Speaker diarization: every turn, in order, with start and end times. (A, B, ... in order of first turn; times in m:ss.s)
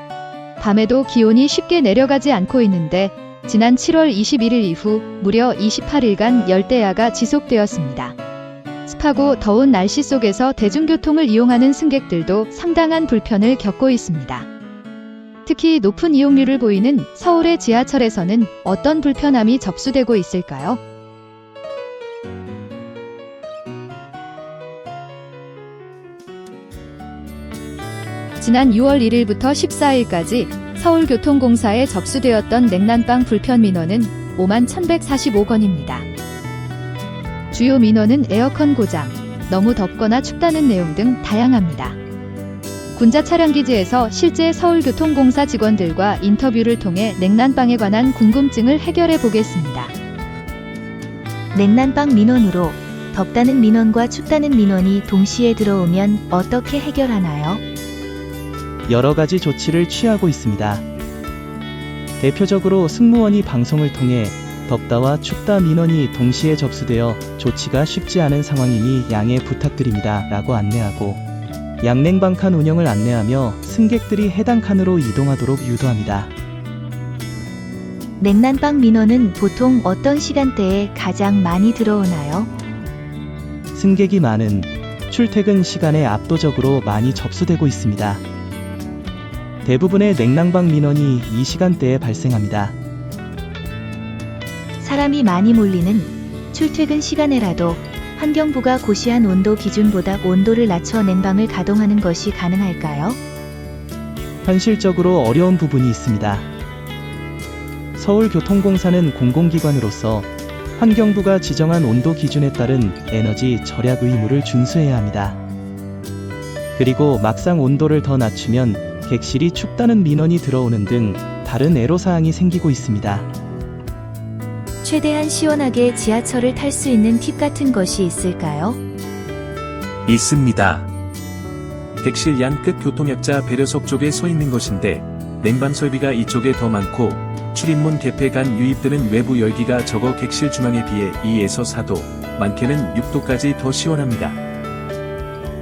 0:00.6-0:08.2 A
0:08.9-0:14.5 A
0:15.4-0:20.8 A
0:28.4-0:36.1 A
0:37.5-0:42.0 A
0:43.0-0:49.9 A
0:51.5-0:57.6 B
0:58.9-1:00.8 C
1:02.2-1:11.2 C
1:11.8-1:16.3 C
1:18.2-1:22.5 B
1:23.7-1:28.2 C
1:29.6-1:32.8 C
1:34.8-1:43.2 B
1:44.4-1:46.5 C
1:47.9-1:55.4 C
1:56.8-2:03.3 C
2:04.8-2:08.8 B
2:10.1-2:10.9 D
2:12.0-2:24.4 D